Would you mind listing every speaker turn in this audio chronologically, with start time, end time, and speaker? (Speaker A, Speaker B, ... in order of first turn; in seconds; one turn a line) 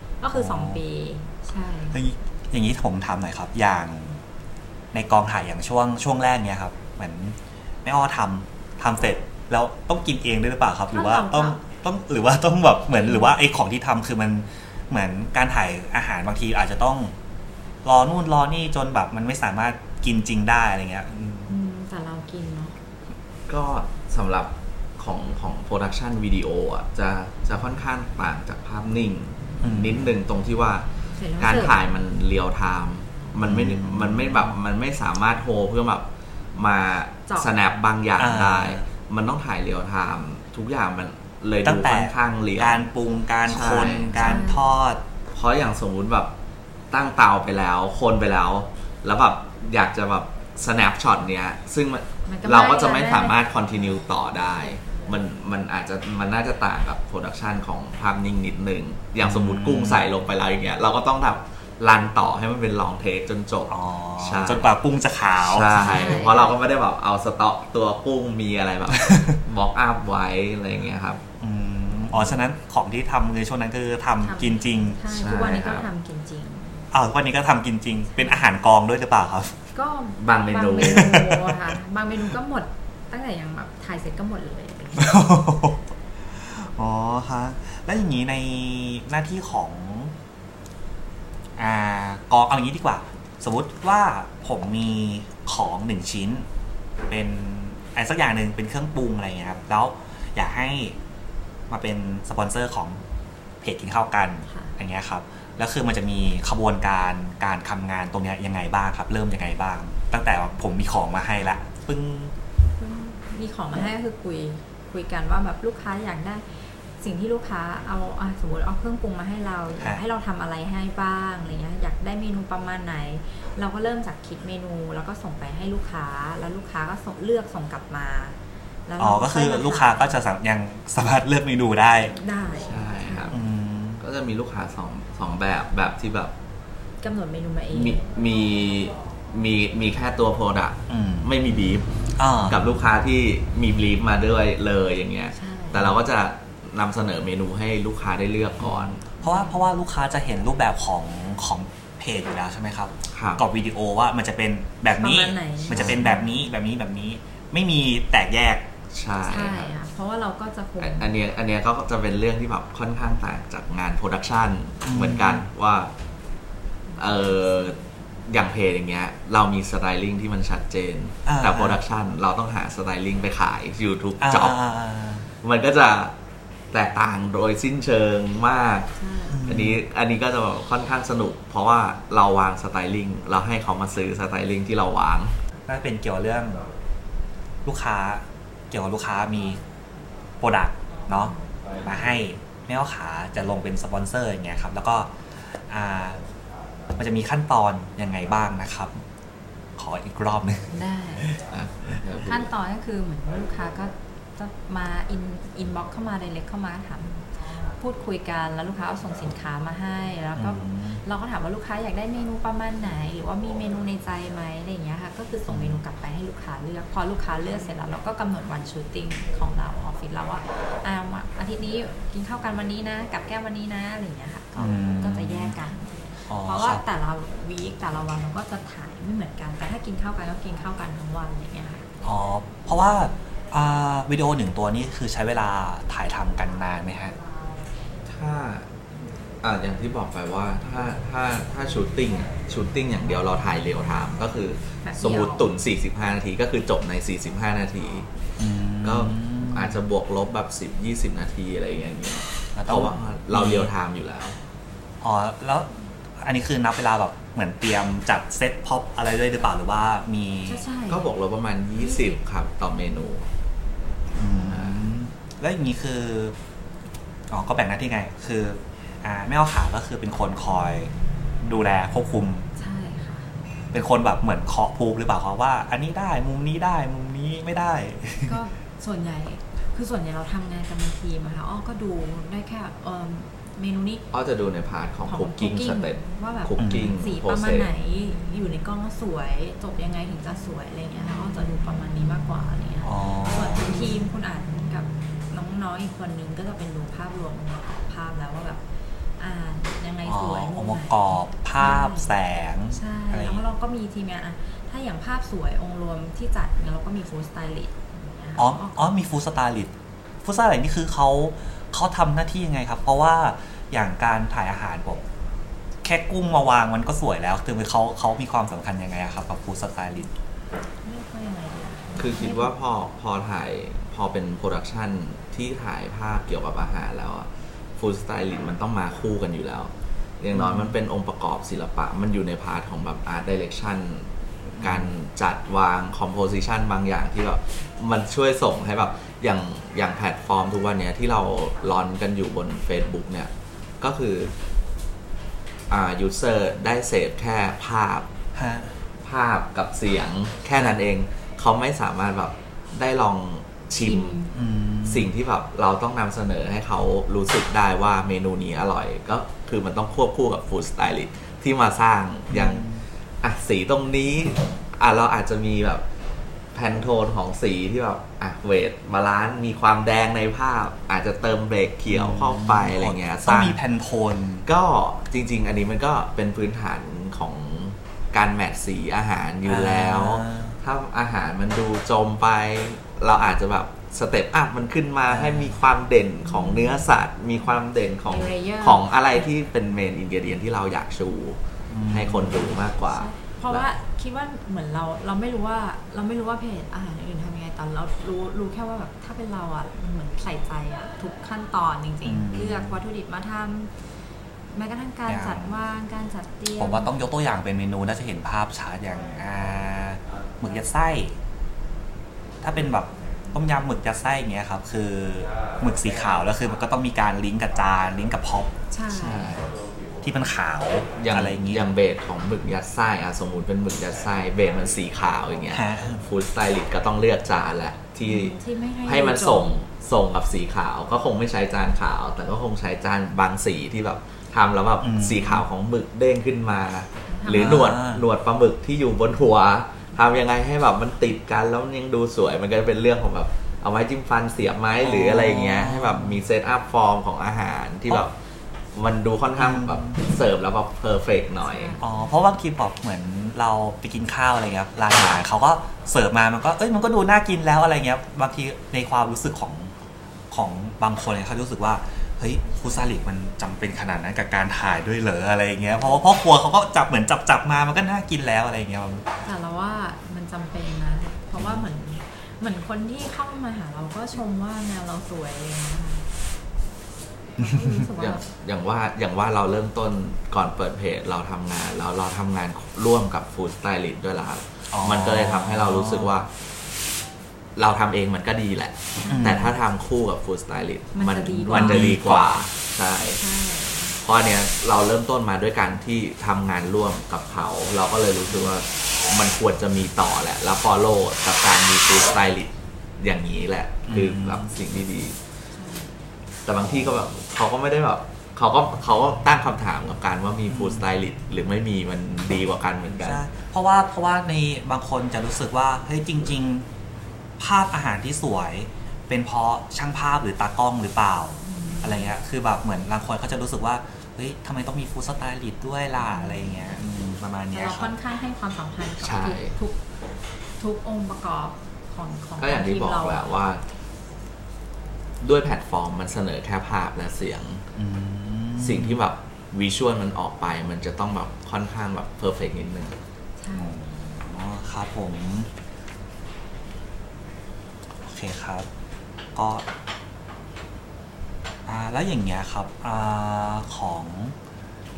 Speaker A: 0.2-2.0
Speaker B: 0.3-0.8
Speaker B: 1.9-4.2
Speaker B: 4.9-17.1
Speaker A: 10.9-11.6
Speaker A: 13.0-13.4
Speaker B: 17.8-21.5
Speaker A: 21.5-22.7
Speaker C: 23.5-30.9
Speaker B: 29.6-30.0
Speaker A: 31.2-31.8
Speaker C: 31.4-42.9
Speaker B: 33.5-34.5
Speaker A: 37.3-37.5
Speaker B: 38.2-38.9
Speaker B: 41.6-45.0
Speaker C: 43.5-44.5
Speaker A: 44.1-44.8
Speaker C: 45.3-46.3
Speaker C: 46.9-64.7
Speaker A: 52.3-53.4
Speaker B: 59.2-60.1
Speaker B: 63.7-66.2
Speaker C: 65.4-71.2
Speaker A: 65.8-66.6
Speaker B: 68.9-69.4
Speaker B: 71.4-75.0
Speaker C: 72.1-72.4
Speaker A: 74.2-76.9
Speaker C: 75.1-75.9
Speaker B: 76.9-79.6
Speaker A: 78.2-78.5
Speaker A: 79.8-85.2
Speaker C: 80.2-81.2
Speaker B: 80.9-81.5
Speaker B: 85.0-85.8
Speaker B: 86.4-90.1
Speaker B: 91.6-96.5
Speaker B: 97.1-101.0
Speaker B: 101.7-103.0
Speaker B: 103.6-112.3
Speaker A: 104.5-104.7
Speaker A: 112.8-130.2
Speaker B: 129.0-132.2
Speaker A: 132.2-133.4
Speaker C: 132.6-133.4
Speaker B: 133.3-134.0
Speaker C: 134.0-136.3
Speaker A: 137.0-138.0
Speaker C: 137.7-141.9
Speaker B: 140.9-141.3
Speaker B: 142.2-142.6
Speaker C: 142.4-149.0
Speaker A: 145.3-145.9
Speaker B: 148.7-158.7
Speaker A: 149.2-149.6
Speaker C: 153.1-153.4
Speaker A: 155.0-156.3
Speaker C: 155.7-156.0
Speaker C: 158.9-159.7
Speaker A: 159.2-161.2
Speaker C: 160.8-165.9
Speaker B: 164.8-165.5
Speaker C: 167.0-174.6
Speaker B: 171.2-171.8
Speaker B: 174.2-175.3
Speaker C: 175.4-176.2
Speaker C: 176.7-178.9
Speaker A: 179.0-179.4
Speaker B: 179.3-179.8
Speaker C: 179.5-185.3
Speaker B: 185.7-186.6
Speaker B: 187.7-189.6
Speaker B: 190.4-196.2
Speaker A: 191.1-191.4
Speaker B: 197.0-199.0
Speaker B: 199.8-201.4
Speaker A: 200.7-201.3
Speaker C: 201.5-202.5
Speaker A: 202.2-231.9
Speaker B: 210.4-211.0
Speaker B: 215.5-215.8
Speaker B: 224.6-225.6
Speaker B: 226.3-226.8
Speaker B: 232.0-237.1
Speaker C: 238.1-238.7
Speaker C: 239.4-248.1
Speaker A: 244.8-245.5
Speaker B: 248.4-249.8
Speaker C: 248.8-254.4
Speaker B: 252.6-253.7
Speaker B: 255.0-260.6
Speaker A: 260.5-261.1
Speaker C: 260.9-263.2
Speaker A: 261.8-262.2
Speaker B: 264.2-266.4
Speaker C: 264.4-264.8
Speaker B: 267.3-272.5
Speaker A: 272.6-273.3
Speaker B: 273.7-278.4
Speaker A: 278.3-284.1
Speaker C: 284.1-287.7
Speaker A: 285.1-298.6
Speaker B: 286.6-286.9
Speaker B: 292.8-293.8
Speaker A: 299.2-302.1
Speaker B: 300.1-303.4
Speaker A: 302.7-308.9
Speaker B: 308.4-309.7
Speaker B: 310.2-315.0
Speaker B: 315.8-320.1
Speaker A: 320.8-322.5
Speaker C: 322.0-344.3
Speaker B: 330.4-330.7
Speaker B: 334.6-334.9
Speaker C: 345.7-348.1
Speaker B: 348.4-348.8
Speaker C: 349.0-354.2
Speaker A: 353.8-354.3
Speaker B: 354.3-355.1
Speaker C: 354.9-362.7
Speaker B: 362.3-362.8
Speaker C: 363.2-365.9
Speaker C: 366.5-373.6
Speaker B: 371.9-374.5
Speaker C: 374.4-393.7
Speaker B: 379.5-380.6
Speaker B: 385.1-385.6
Speaker A: 386.3-386.9
Speaker A: 388.1-389.2
Speaker B: 391.7-392.4
Speaker A: 392.9-403.7
Speaker B: 402.1-402.8
Speaker A: 404.5-406.9
Speaker B: 405.1-405.6
Speaker B: 406.6-411.2
Speaker B: 412.4-418.6
Speaker A: 418.7-419.5
Speaker C: 418.9-419.5
Speaker B: 420.0-421.7
Speaker C: 421.0-448.1
Speaker B: 425.5-426.0
Speaker A: 428.1-429.6
Speaker B: 434.8-435.4
Speaker A: 437.1-437.7
Speaker B: 437.3-438.0
Speaker B: 444.8-446.2
Speaker C: 448.7-451.8
Speaker B: 449.4-450.0
Speaker A: 451.4-452.1
Speaker B: 451.8-459.7
Speaker B: 460.3-469.1
Speaker A: 465.8-466.0
Speaker A: 469.2-476.0
Speaker B: 471.4-471.7
Speaker A: 477.4-478.2
Speaker B: 477.4-477.8
Speaker C: 478.0-486.3
Speaker B: 484.7-486.1
Speaker C: 487.6-493.2
Speaker A: 489.0-489.4
Speaker B: 489.1-489.6
Speaker A: 490.9-492.1
Speaker B: 491.5-492.3
Speaker A: 493.0-494.0
Speaker C: 494.0-505.2
Speaker B: 503.9-504.5
Speaker A: 505.5-506.0
Speaker C: 506.4-513.2
Speaker B: 510.5-510.9
Speaker B: 513.0-516.7
Speaker B: 517.4-527.9
Speaker A: 521.4-522.1
Speaker A: 526.0-526.8
Speaker A: 527.5-529.8
Speaker C: 529.0-529.5
Speaker A: 530.6-533.4
Speaker C: 532.4-533.6
Speaker C: 535.2-537.6
Speaker B: 537.8-539.0
Speaker C: 538.6-543.0
Speaker A: 543.4-543.8
Speaker B: 543.5-545.5
Speaker B: 548.0-548.7
Speaker B: 549.4-549.7
Speaker B: 551.7-554.4